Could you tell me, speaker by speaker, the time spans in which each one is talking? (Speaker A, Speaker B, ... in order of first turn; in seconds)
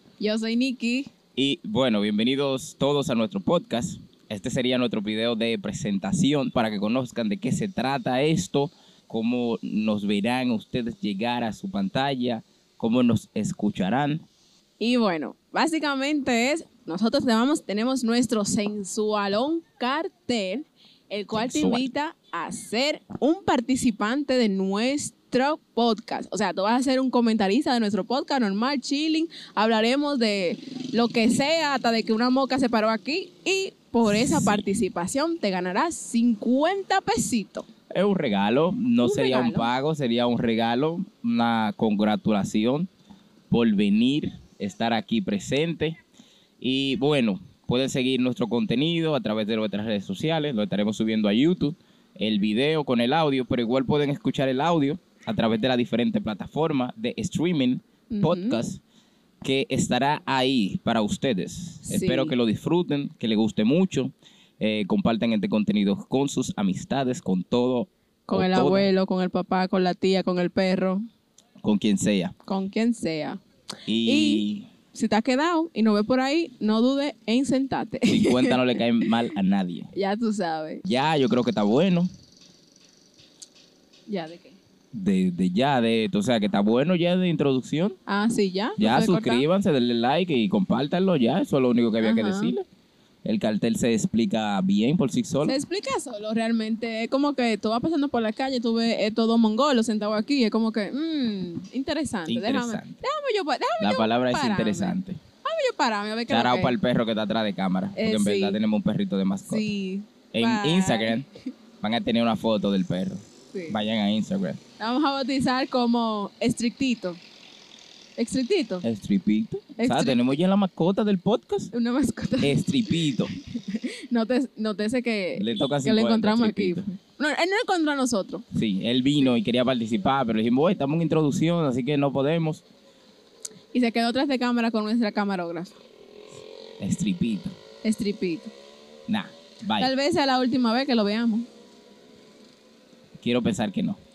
Speaker A: 0.2-1.1, 14.8-37.7, 39.0-39.7, 58.1-58.6, 61.8-62.3, 68.3-71.0, 72.5-73.4, 74.0-78.8, 79.9-80.8, 84.1-84.6, 88.1-89.5, 92.0-92.5, 95.4-106.8, 108.0-108.6, 109.5-111.2, 113.5-113.8, 114.8-117.2, 118.2-118.8, 119.8-120.2, 121.7-128.4, 133.7-135.8, 137.8-138.5, 139.8-141.5
Speaker B: 1.3-14.2, 21.3-21.9, 34.0-34.6, 37.9-42.9, 43.5-46.0, 46.6-58.8, 59.4-68.9, 71.6-72.3, 73.9-74.7, 78.1-79.9, 80.8-82.1, 84.9-88.0, 88.8-92.6, 93.2-95.5, 102.3-103.0, 103.8-105.2, 106.3-109.7, 110.3-111.2, 111.8-114.6, 118.8-121.7, 122.4-123.3, 125.3-126.8, 128.5-132.6, 136.8-137.5, 139.1-139.9, 143.2-144.0